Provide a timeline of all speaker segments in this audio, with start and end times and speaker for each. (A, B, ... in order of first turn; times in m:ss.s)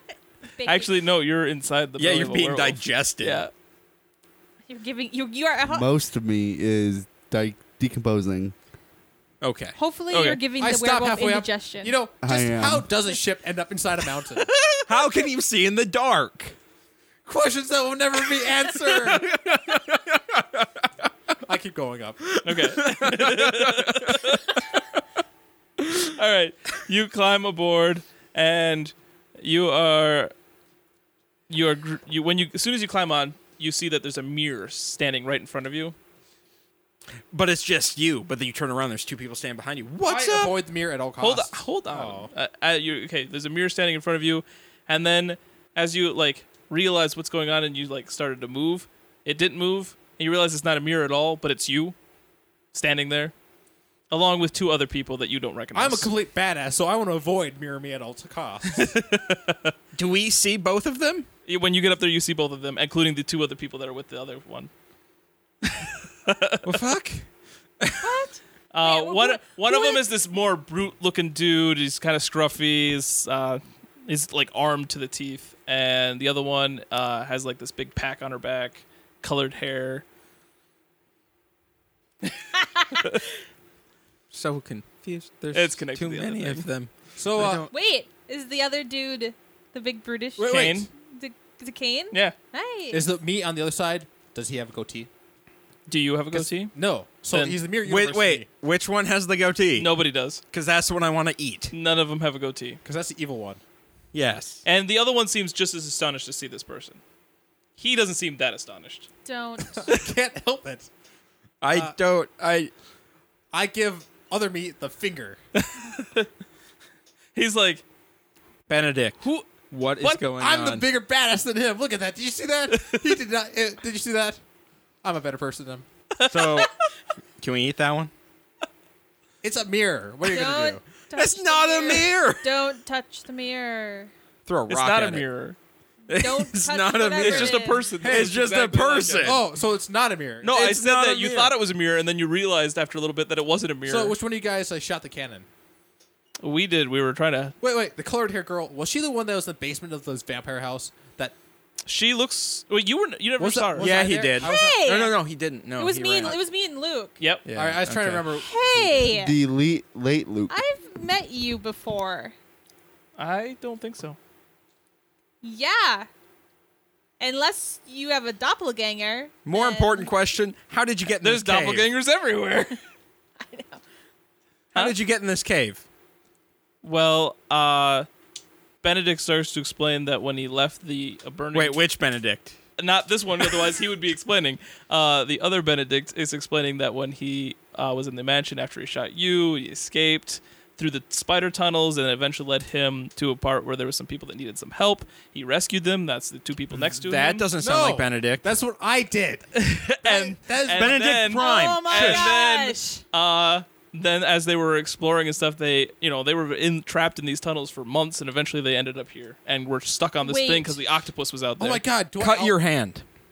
0:00.6-0:00.9 A
0:00.6-0:03.5 B
0:02.0-0:03.4 C
0:04.7-0:05.9 A
0:05.6-0:08.5 D
0:09.4-0:09.8 C
0:09.8-0:12.0 A
0:10.1-0:10.4 B
0:10.6-0:14.5 E
0:12.2-0:12.9 D
0:14.9-0:16.5 C
0:17.2-0:19.3 E
0:19.0-0:20.9 C
0:21.4-0:22.4 E
0:22.2-0:24.4 C
0:22.4-0:24.6 B
0:25.9-0:30.3 B
0:31.5-0:35.9 B
0:37.3-0:40.5 C
0:40.0-0:42.3 E
0:41.2-0:51.9 B
0:52.7-0:53.3 B
0:54.1-0:56.1 B
0:55.7-0:59.0 E
0:58.7-0:59.7 B
0:59.9-1:01.3 C
1:01.4-1:04.7 B
1:05.8-1:06.7 B
1:06.6-1:07.2 C
1:07.8-1:08.1 C
1:08.0-1:10.0 A
1:08.7-1:20.0 B
1:22.8-1:23.0 A
1:24.3-1:27.7 C
1:25.5-1:26.6 B
1:27.2-1:27.7 E
1:27.7-1:33.1 A
1:30.4-1:30.8 E
1:30.4-1:30.9 B
1:32.9-1:35.1 E
1:35.9-1:36.7 B
1:36.3-1:38.5 E
1:37.3-1:37.6 B
1:37.8-1:39.9 C
1:39.8-1:40.4 B
1:40.5-1:41.7 C
1:41.7-1:42.8 B
1:42.8-1:43.6 E
1:44.1-1:44.6 C
1:44.6-1:47.0 B
1:47.8-1:49.1 B
1:49.2-1:49.9 A
1:49.7-1:50.9 E
1:51.6-1:52.7 C
1:53.5-1:55.4 E
1:55.6-1:56.3 B
1:57.3-1:57.8 B
1:58.7-2:00.8 C
1:59.2-2:00.2 B
2:00.4-2:04.4 E
2:02.7-2:03.1 B
2:05.0-2:05.8 E
2:06.1-2:06.7 B
2:06.3-2:06.7 C
2:07.4-2:08.1 C
2:09.4-2:10.8 E
2:10.2-2:14.1 A
2:11.1-2:12.5 C
2:14.4-2:15.2 C
2:14.7-2:15.6 B
2:16.1-2:19.4 C
2:16.1-2:17.9 A
2:17.2-2:19.4 B
2:18.0-2:18.3 E
2:19.2-2:20.5 E
2:20.4-2:24.2 B
2:20.4-2:21.5 C
2:23.8-2:25.5 E
2:26.4-2:27.6 B
2:27.6-2:31.3 E
2:31.8-2:34.0 B
2:33.4-2:34.8 E
2:33.8-2:36.4 C
2:34.4-2:35.2 A
2:35.8-2:37.2 A
2:37.2-2:37.4 B
2:37.4-2:38.3 C
2:37.5-2:39.1 E
2:38.4-2:39.4 A
2:39.0-2:40.5 D
2:40.5-2:42.3 A
2:43.2-2:44.2 B
2:45.4-2:46.1 A
2:47.2-2:50.1 A
2:49.4-2:51.9 C
2:51.2-2:52.8 B
2:53.4-2:53.8 A
2:54.7-2:55.8 C
2:56.8-2:58.1 B
2:58.8-3:01.8 B
3:01.5-3:02.6 C
3:02.8-3:17.5 B
3:17.0-3:18.4 C
3:17.6-3:21.0 E
3:19.6-3:31.8 B
3:20.7-3:22.3 C
3:21.3-3:23.0 A
3:30.2-3:30.8 A
3:31.6-3:32.6 E
3:32.2-3:33.0 C